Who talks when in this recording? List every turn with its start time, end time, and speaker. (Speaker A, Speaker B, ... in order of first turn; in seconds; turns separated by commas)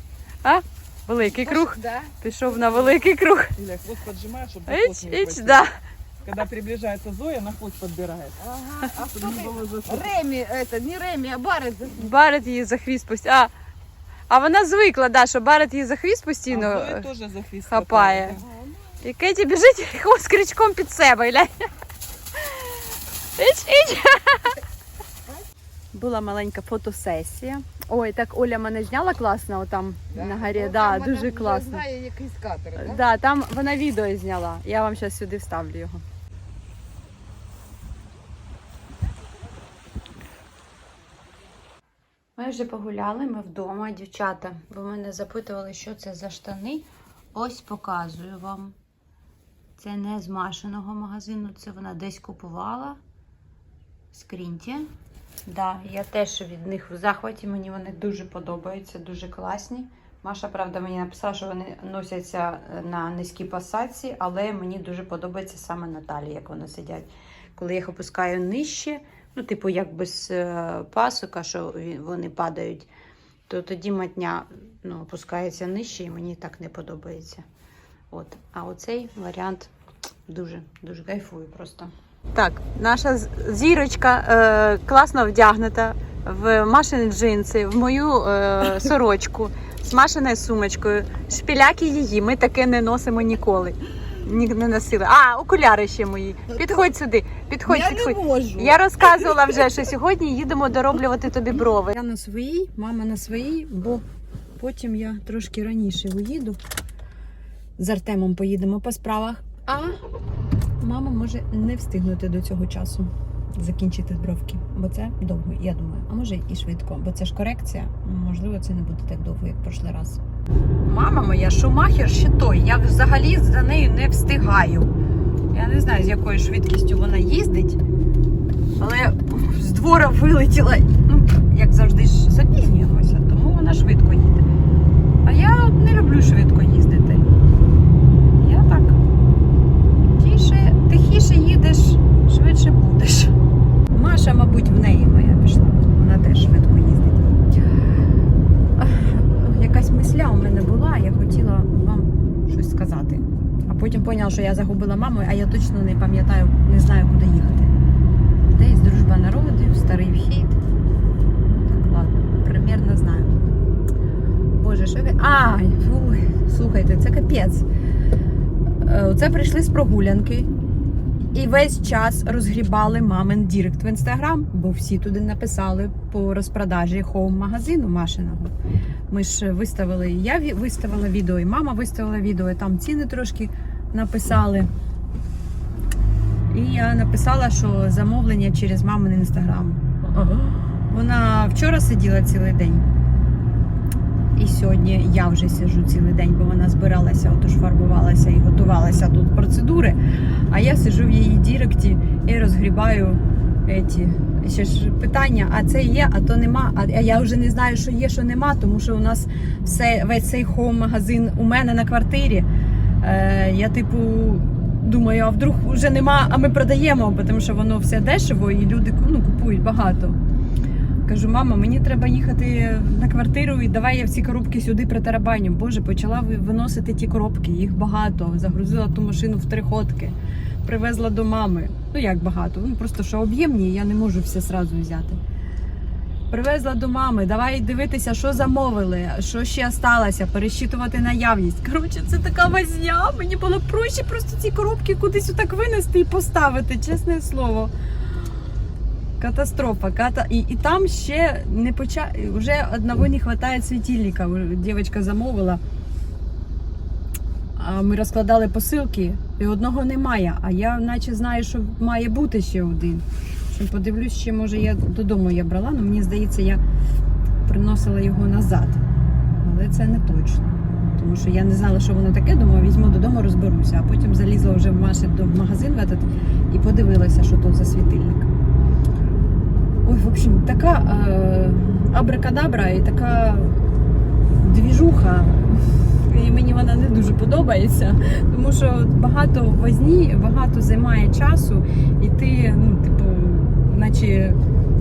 Speaker A: 0.4-3.5, Speaker B: 1.4-2.1, Speaker C: 3.6-5.7, Speaker A: 4.7-5.8, Speaker C: 6.2-8.4, Speaker B: 8.4-12.1, Speaker C: 8.9-10.1, Speaker A: 12.0-13.5, Speaker A: 14.3-17.1, Speaker C: 16.5-18.4, Speaker A: 17.7-18.4, Speaker A: 19.0-21.5, Speaker A: 22.4-24.6, Speaker A: 25.9-31.9, Speaker B: 30.1-33.1, Speaker A: 32.8-36.0, Speaker A: 42.4-48.8, Speaker A: 49.8-53.0, Speaker A: 54.1-54.9, Speaker A: 55.5-72.9, Speaker A: 73.5-77.5, Speaker A: 78.1-79.7, Speaker A: 80.3-104.0, Speaker B: 96.5-96.8, Speaker B: 97.7-98.8, Speaker A: 104.6-106.6, Speaker A: 107.8-110.0, Speaker A: 110.8-120.2, Speaker A: 120.8-124.9, Speaker A: 125.5-127.8, Speaker A: 128.8-134.5, Speaker A: 135.2-137.3, Speaker A: 138.4-139.0, Speaker A: 140.2-143.3, Speaker A: 143.9-147.4, Speaker A: 148.8-157.7, Speaker A: 158.4-160.6, Speaker A: 161.6-163.4, Speaker A: 164.6-167.7, Speaker A: 168.8-170.5, Speaker A: 171.3-178.5, Speaker A: 179.1-184.7, Speaker A: 186.5-192.9, Speaker A: 194.4-212.5, Speaker A: 213.0-220.2, Speaker A: 221.1-235.2, Speaker A: 236.3-247.7, Speaker A: 249.2-255.6, Speaker A: 257.6-266.6, Speaker A: 267.4-268.8, Speaker A: 269.4-278.3, Speaker A: 279.8-283.8, Speaker A: 284.4-294.4